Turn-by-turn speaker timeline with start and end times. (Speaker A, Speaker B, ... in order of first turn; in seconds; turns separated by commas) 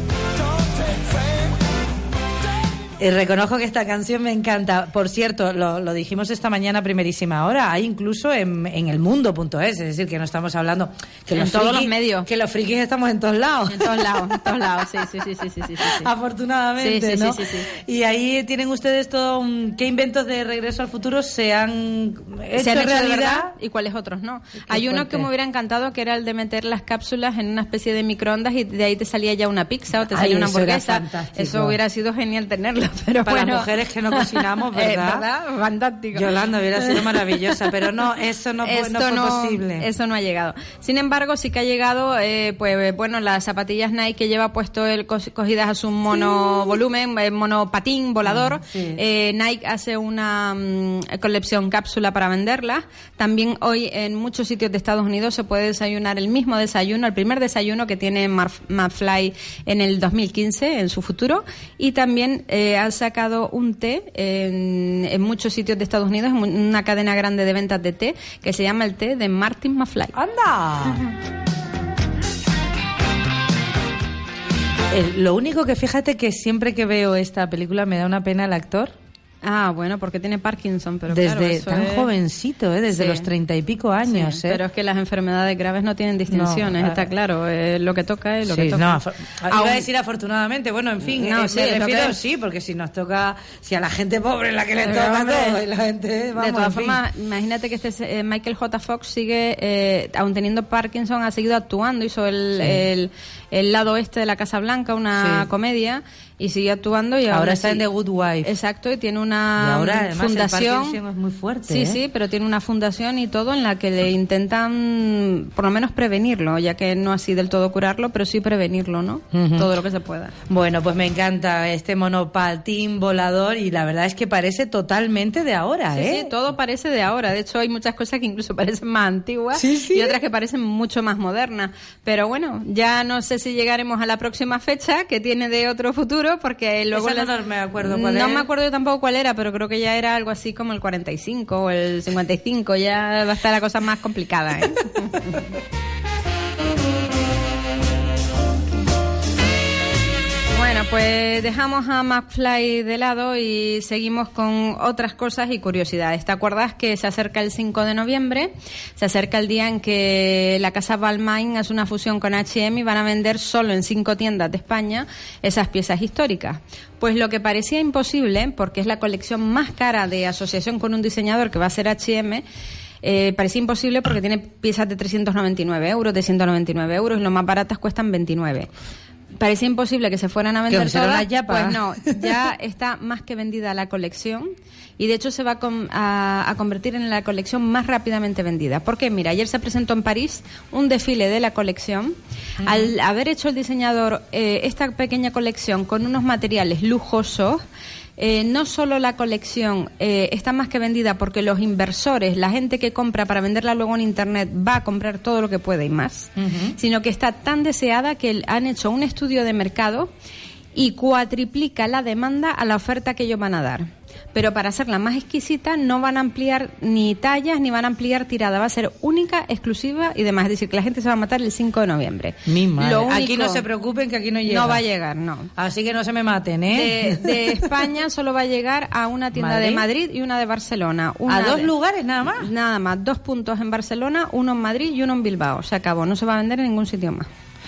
Speaker A: 3.0-14.4, Speaker B: 11.3-12.3, Speaker B: 13.7-16.1, Speaker A: 15.8-23.5, Speaker B: 16.8-17.7, Speaker B: 22.6-37.7, Speaker A: 24.6-25.3, Speaker A: 30.1-31.8, Speaker A: 33.2-35.2, Speaker A: 36.1-39.9, Speaker B: 38.6-70.2, Speaker A: 46.2-46.5, Speaker A: 48.2-49.0, Speaker A: 70.1-71.0, Speaker A: 74.9-78.9, Speaker B: 79.4-82.1, Speaker A: 81.1-84.6, Speaker B: 82.9-83.3, Speaker B: 84.1-89.9, Speaker A: 86.3-87.1, Speaker A: 88.5-97.0, Speaker B: 91.0-92.2, Speaker B: 94.8-95.6, Speaker B: 96.4-107.8, Speaker A: 105.2-105.5, Speaker A: 107.3-108.5, Speaker B: 108.4-111.0, Speaker A: 109.6-112.0, Speaker B: 111.7-120.3, Speaker A: 119.3-119.7, Speaker A: 120.5-126.3, Speaker B: 125.9-145.5, Speaker A: 129.5-130.2, Speaker A: 136.9-138.5, Speaker B: 150.5-172.4, Speaker B: 173.0-178.7, Speaker B: 179.4-197.6, Speaker A: 180.7-182.4, Speaker A: 192.6-192.9, Speaker B: 198.2-210.1, Speaker A: 206.4-206.8, Speaker B: 210.8-223.6, Speaker A: 222.4-224.8, Speaker B: 224.5-225.5, Speaker A: 225.6-227.9, Speaker B: 226.7-231.7, Speaker A: 229.3-229.8, Speaker A: 231.3-232.5, Speaker B: 232.4-237.3